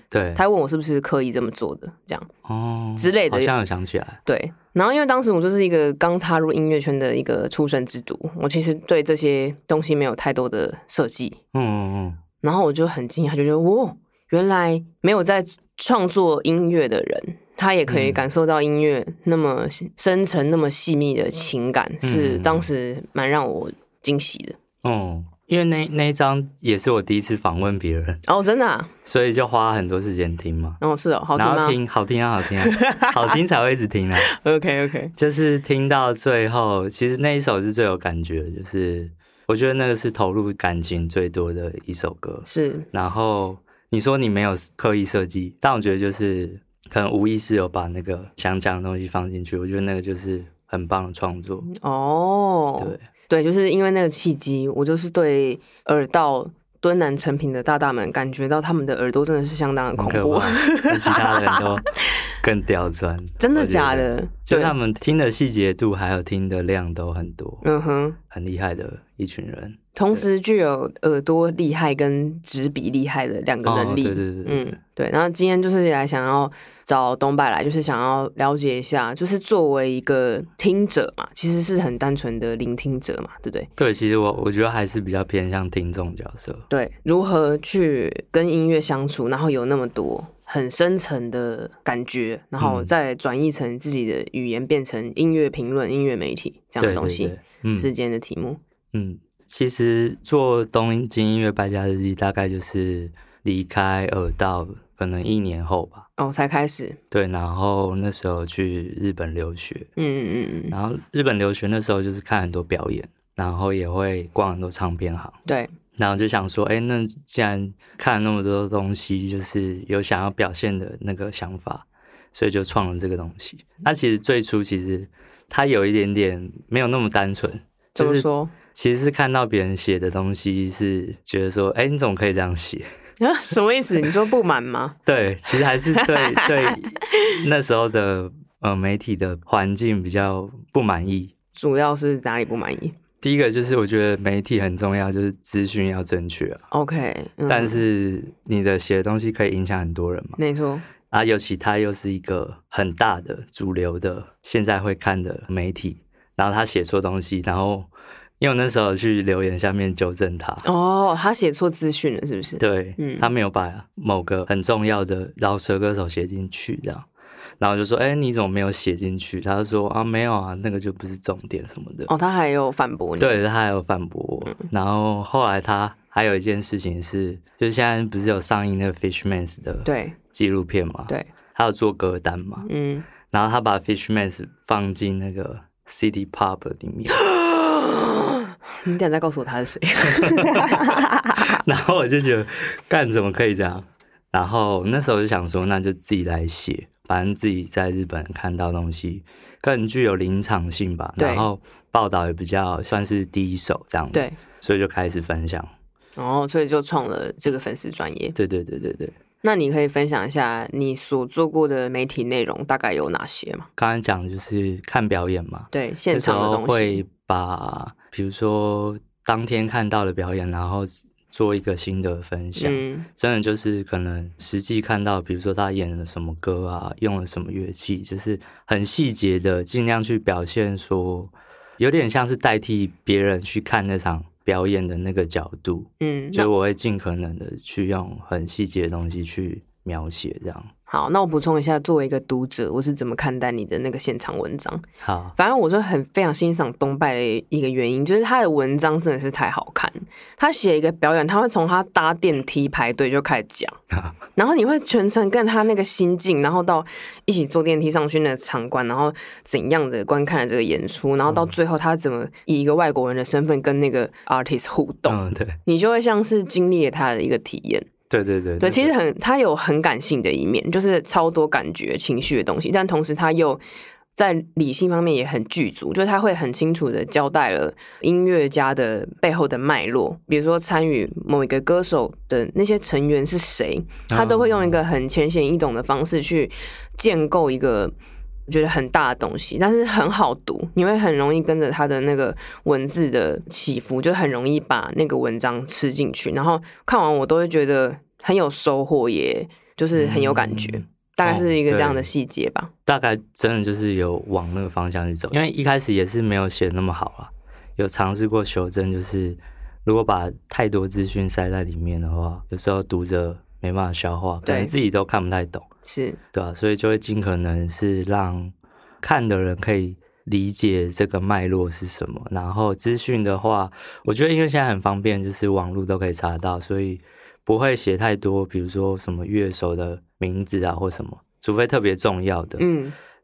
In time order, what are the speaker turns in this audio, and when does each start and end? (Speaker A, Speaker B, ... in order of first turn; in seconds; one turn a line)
Speaker A: 0.1-0.4
Speaker B: 0.3-2.3
Speaker A: 2.5-4.2
Speaker B: 3.0-3.5
Speaker B: 4.2-11.4
Speaker A: 11.5-12.2
Speaker B: 12.4-24.6
Speaker A: 17.9-18.2
Speaker A: 22.0-22.7
Speaker A: 24.8-28.2
Speaker B: 28.2-28.9
Speaker A: 29.0-30.8
Speaker B: 30.8-31.8
Speaker A: 31.4-34.3
Speaker B: 32.6-33.3
Speaker B: 34.2-35.1
Speaker A: 35.1-51.6
Speaker B: 42.5-42.9
Speaker B: 51.7-61.6
Speaker A: 52.8-53.0
Speaker A: 60.0-67.6
Speaker B: 63.4-64.7
Speaker B: 67.6-68.2
Speaker A: 68.3-70.2
Speaker B: 69.9-83.7
Speaker A: 73.6-74.8
Speaker A: 83.8-86.7
Speaker B: 86.7-98.6
Speaker A: 92.6-92.9
Speaker A: 96.8-97.9
Speaker A: 98.9-106.1
Speaker B: 106.2-107.0
Speaker A: 107.1-109.9
Speaker B: 110.0-110.7
Speaker A: 110.7-115.4
Speaker B: 115.5-115.7
Speaker A: 116.0-132.9
Speaker B: 128.0-128.5
Speaker B: 133.2-134.9
Speaker A: 135.1-141.3
Speaker B: 135.9-137.4
Speaker B: 141.5-142.9
Speaker A: 143.2-146.6
Speaker B: 146.7-147.8
Speaker A: 147.5-150.4
Speaker B: 150.4-150.8
Speaker A: 151.1-157.9
Speaker A: 158.4-160.6
Speaker B: 160.6-163.3
Speaker A: 162.6-167.1
Speaker A: 167.6-172.1
Speaker B: 172.1-173.4
Speaker A: 173.2-182.7
Speaker B: 179.8-180.2
Speaker B: 182.6-183.1
Speaker A: 183.3-187.2
Speaker B: 187.2-191.6
Speaker A: 190.1-205.7
Speaker B: 201.2-201.5
Speaker B: 204.1-204.4
Speaker B: 206.2-208.3
Speaker A: 208.3-209.1
Speaker B: 209.4-213.7
Speaker A: 213.8-240.7
Speaker B: 215.7-217.0
Speaker B: 222.6-223.1
Speaker B: 236.0-236.5
Speaker B: 240.9-244.8
Speaker A: 245.0-245.3
Speaker B: 245.3-253.8
Speaker A: 253.9-254.2
Speaker B: 254.3-267.9
Speaker A: 261.3-261.5
Speaker A: 265.1-265.6
Speaker A: 268.1-268.9
Speaker B: 268.6-273.6
Speaker B: 274.1-287.9
Speaker A: 284.1-284.8
Speaker B: 288.5-302.7
Speaker A: 299.9-302.1
Speaker A: 302.9-315.7
Speaker B: 314.4-314.7
Speaker B: 315.8-316.2
Speaker A: 316.3-332.6
Speaker B: 332.6-332.9